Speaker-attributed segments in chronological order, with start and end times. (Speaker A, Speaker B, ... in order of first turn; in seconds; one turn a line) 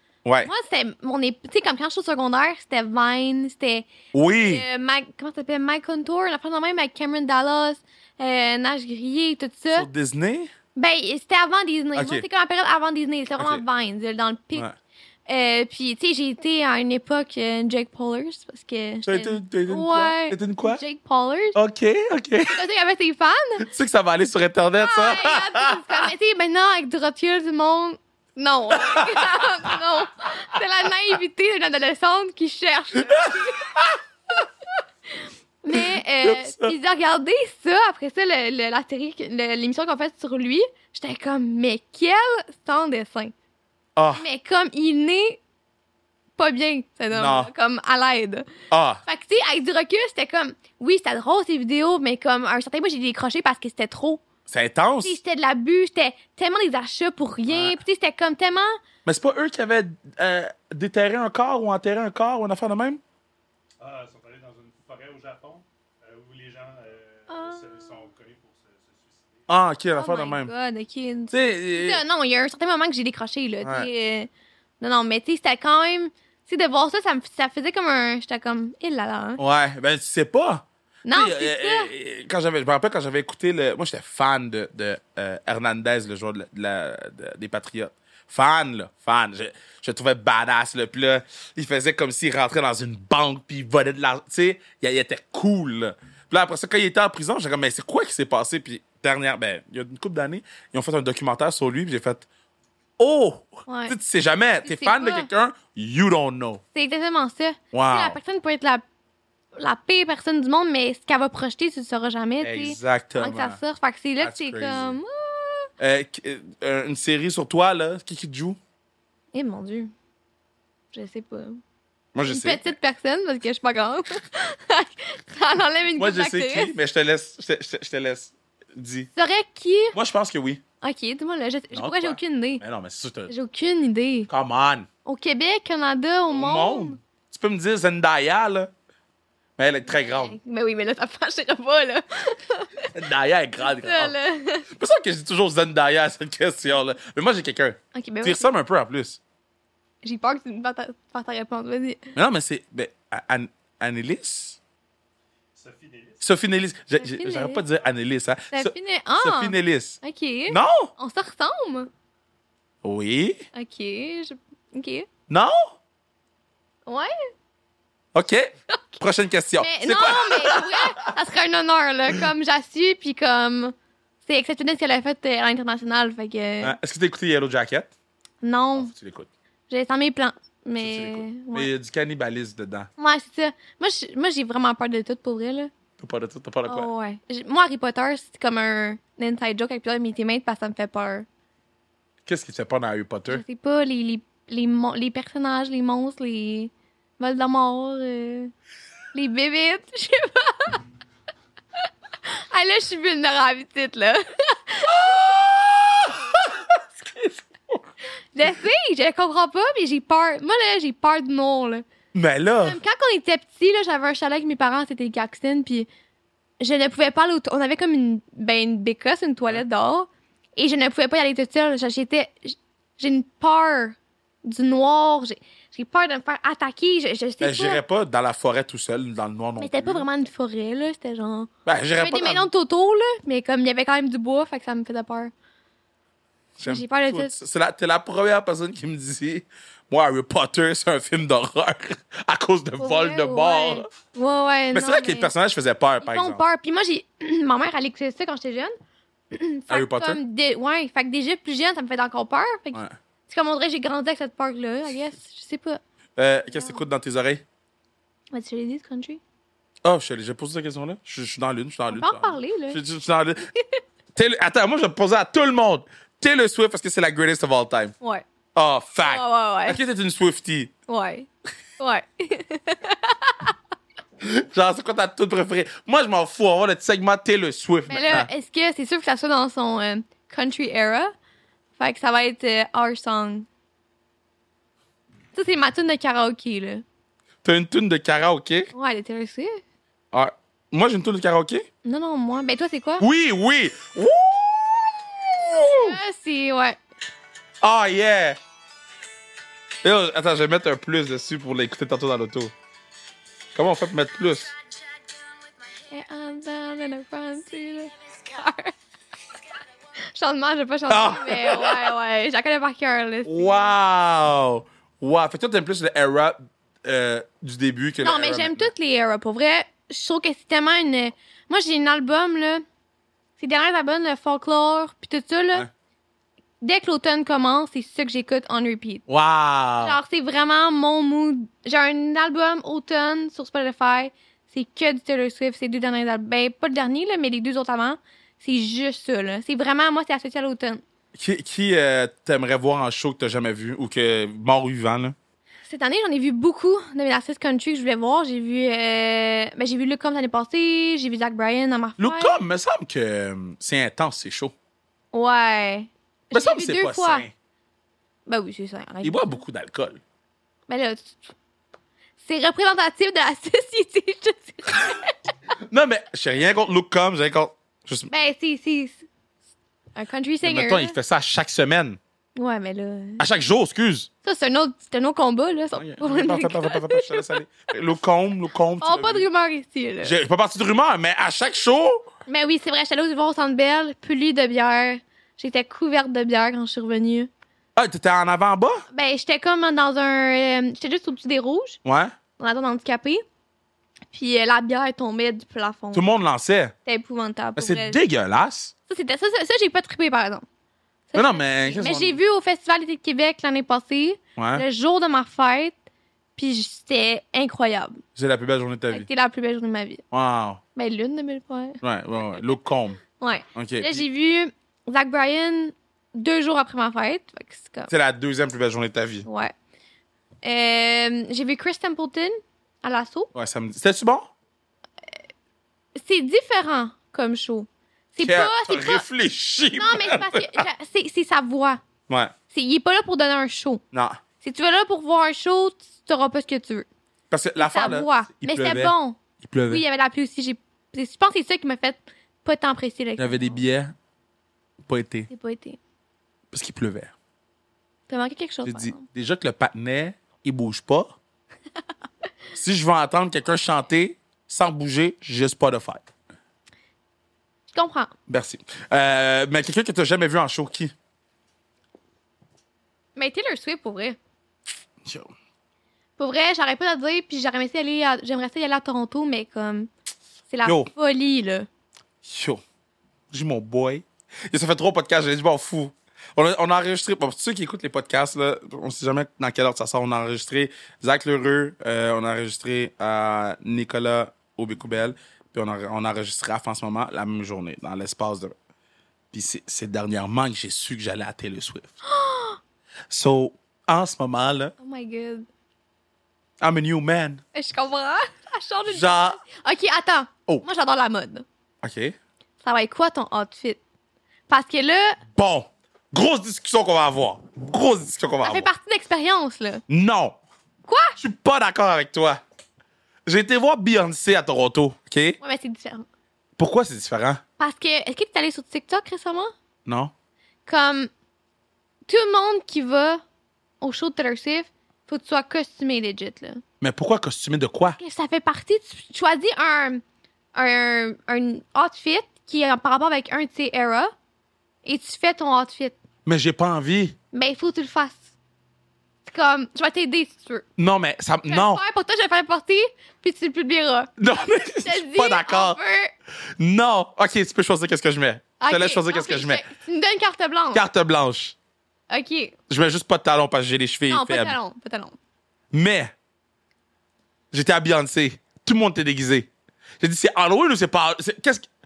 Speaker A: 0.2-0.5
Speaker B: 0.4-9.9
Speaker A: 4.1-4.6
Speaker A: 9.7-10.5
Speaker B: 10.8-14.7
Speaker A: 11.9-12.2
Speaker A: 13.4-13.6
Speaker B: 15.3-21.6
Speaker A: 19.1-20.8
Speaker A: 21.5-22.6
Speaker B: 22.5-23.6
Speaker A: 23.6-26.1
Speaker B: 24.8-33.7
Speaker A: 28.7-29.4
Speaker A: 33.1-34.0
Speaker B: 35.6-43.3
Speaker A: 35.7-36.8
Speaker A: 44.0-44.2
Speaker B: 44.1-45.4
Speaker B: 46.4-48.5
Speaker A: 47.1-47.5
Speaker A: 48.7-49.0
Speaker B: 49.0-54.2
Speaker A: 54.5-55.2
Speaker B: 55.0-58.8
Speaker A: 57.5-57.8
Speaker A: 59.0-63.0
Speaker C: 63.8-69.5
Speaker B: 67.3-68.0
Speaker A: 69.5-70.5
Speaker B: 69.9-79.4
Speaker A: 71.3-72.0
Speaker A: 73.6-73.9
Speaker A: 79.4-102.2
Speaker B: 81.0-81.9
Speaker A: 103.0-106.6
Speaker B: 103.7-103.9
Speaker B: 104.6-105.3
Speaker B: 106.7-108.8
Speaker A: 107.7-108.2
Speaker B: 109.5-115.7
Speaker A: 112.4-113.6
Speaker A: 114.2-115.0
Speaker A: 115.8-118.6
Speaker B: 119.3-119.9
Speaker B: 120.9-121.6
Speaker A: 122.1-122.7
Speaker B: 122.2-126.7
Speaker A: 126.0-129.1
Speaker B: 129.1-129.9
Speaker A: 129.9-130.6
Speaker B: 130.8-132.6
Speaker A: 131.7-133.3
Speaker B: 133.3-134.3
Speaker A: 134.3-134.9
Speaker B: 135.0-137.0
Speaker A: 136.3-138.7
Speaker A: 139.6-140.4
Speaker B: 139.9-142.9
Speaker A: 142.9-144.1
Speaker B: 143.6-144.7
Speaker A: 144.7-149.2
Speaker B: 147.9-148.5
Speaker B: 150.0-152.1
Speaker A: 152.1-154.6
Speaker C: 155.5-156.2
Speaker A: 156.2-160.0
Speaker B: 157.0-157.6
Speaker B: 158.5-161.9
Speaker A: 160.5-160.9
Speaker A: 162.8-163.4
Speaker B: 163.5-165.1
Speaker A: 165.3-165.7
Speaker B: 166.8-167.3
Speaker A: 168.1-170.9
Speaker B: 168.7-169.0
Speaker B: 169.6-176.8
Speaker A: 176.6-177.9
Speaker B: 178.4-178.9
Speaker A: 178.8-179.3
Speaker B: 179.7-181.7
Speaker A: 180.8-182.9
Speaker B: 183.0-185.7
Speaker A: 186.0-186.9
Speaker B: 186.7-191.3
Speaker A: 192.2-193.4
Speaker B: 193.3-198.5
Speaker B: 199.1-200.8
Speaker B: 202.2-205.1
Speaker A: 204.8-207.8
Speaker B: 208.3-211.8
Speaker A: 212.1-212.8
Speaker B: 212.6-215.9
Speaker B: 216.6-227.8
Speaker A: 227.4-230.1
Speaker B: 229.6-235.3
Speaker A: 231.7-232.4
Speaker A: 236.6-243.9
Speaker B: 236.6-237.3
Speaker B: 242.8-245.3
Speaker A: 244.7-246.4
Speaker B: 246.0-248.7
Speaker B: 249.3-255.8
Speaker A: 249.7-250.2
Speaker A: 256.2-257.4
Speaker B: 256.5-256.8
Speaker B: 258.3-259.2
Speaker A: 259.8-263.4
Speaker B: 261.9-262.8
Speaker A: 264.1-267.9
Speaker B: 268.0-268.2
Speaker A: 268.5-270.7
Speaker B: 269.0-269.8
Speaker B: 270.9-273.5
Speaker A: 274.2-278.3
Speaker B: 277.9-281.1
Speaker B: 281.8-283.5
Speaker B: 285.3-286.8
Speaker A: 287.4-288.7
Speaker B: 288.7-289.6
Speaker A: 290.1-291.6
Speaker B: 291.8-293.1
Speaker A: 293.0-296.0
Speaker B: 295.8-296.8
Speaker A: 297.6-298.4
Speaker A: 299.8-302.5
Speaker A: 303.5-304.5
Speaker B: 305.9-308.7
Speaker B: 310.1-313.7
Speaker A: 310.9-311.9
Speaker A: 313.3-318.7
Speaker B: 318.0-322.6
Speaker B: 323.4-325.7
Speaker B: 326.6-329.0
Speaker A: 329.1-330.0
Speaker B: 329.8-340.8
Speaker A: 341.1-345.1
Speaker B: 345.7-352.4
Speaker A: 352.0-354.5
Speaker B: 355.1-357.2
Speaker A: 356.3-357.3
Speaker B: 358.2-359.4
Speaker A: 359.0-360.0
Speaker B: 360.7-361.2
Speaker B: 362.2-365.1
Speaker A: 365.7-368.1
Speaker B: 368.1-369.0
Speaker B: 369.9-370.9
Speaker A: 370.4-372.0
Speaker B: 372.4-373.2
Speaker A: 373.2-374.1
Speaker B: 374.2-377.3
Speaker A: 375.8-379.2
Speaker B: 378.8-380.2
Speaker A: 380.0-382.1
Speaker B: 382.3-387.3
Speaker A: 387.8-388.8
Speaker B: 388.9-391.8
Speaker A: 391.8-392.1
Speaker B: 392.4-393.2
Speaker B: 394.1-396.0
Speaker A: 395.9-396.7
Speaker B: 396.9-398.0
Speaker A: 397.6-398.7
Speaker B: 398.9-400.4
Speaker B: 401.1-405.8
Speaker A: 401.1-402.2
Speaker A: 404.4-404.6
Speaker B: 406.4-408.0
Speaker A: 408.1-409.0
Speaker B: 408.9-410.0
Speaker A: 410.1-410.6
Speaker B: 410.8-411.8
Speaker A: 411.8-413.0
Speaker B: 413.1-417.9
Speaker A: 413.5-414.0
Speaker A: 417.9-419.2
Speaker B: 419.2-419.5
Speaker B: 420.4-423.3
Speaker A: 423.3-424.3
Speaker B: 425.9-429.0
Speaker A: 428.2-430.6
Speaker B: 429.8-431.8
Speaker B: 432.5-433.8
Speaker A: 433.9-434.2
Speaker B: 434.4-436.9
Speaker A: 437.3-439.8
Speaker B: 437.6-443.6
Speaker A: 443.2-443.9
Speaker A: 444.9-445.3
Speaker B: 445.3-445.8
Speaker A: 446.5-447.1
Speaker B: 448.1-449.1
Speaker A: 448.6-451.1
Speaker A: 452.6-456.0
Speaker B: 457.7-458.1
Speaker A: 458.3-460.9
Speaker B: 463.1-464.2
Speaker A: 465.0-465.3
Speaker B: 466.2-469.9
Speaker B: 470.5-471.7
Speaker A: 472.2-472.6
Speaker A: 473.3-488.5
Speaker A: 489.3-491.9
Speaker B: 492.0-492.6
Speaker A: 493.1-494.7
Speaker B: 494.8-495.5
Speaker A: 496.6-497.4
Speaker B: 497.5-501.4
Speaker A: 498.9-499.4
Speaker A: 501.8-502.1
Speaker B: 502.6-503.8
Speaker B: 504.5-505.2
Speaker A: 505.4-508.6
Speaker B: 508.4-509.8
Speaker A: 509.9-510.4
Speaker B: 510.9-511.2
Speaker A: 511.2-512.4
Speaker A: 513.3-515.4
Speaker B: 515.4-516.1
Speaker A: 516.6-517.4
Speaker B: 517.6-519.5
Speaker A: 519.9-520.1
Speaker B: 520.6-521.1
Speaker B: 522.1-523.2
Speaker B: 523.8-526.6
Speaker A: 526.8-528.0
Speaker B: 528.0-530.0
Speaker B: 530.5-534.1
Speaker B: 534.8-536.0
Speaker A: 536.2-537.1
Speaker B: 537.3-538.3
Speaker B: 539.2-540.6
Speaker A: 540.8-541.8
Speaker B: 541.5-544.1
Speaker A: 544.2-545.8
Speaker B: 544.8-546.1
Speaker A: 546.6-549.6
Speaker B: 548.6-550.8
Speaker A: 550.7-551.5
Speaker B: 552.1-552.5
Speaker A: 552.7-554.5
Speaker B: 554.1-555.2
Speaker A: 555.7-556.1
Speaker A: 557.5-559.5
Speaker A: 560.0-561.6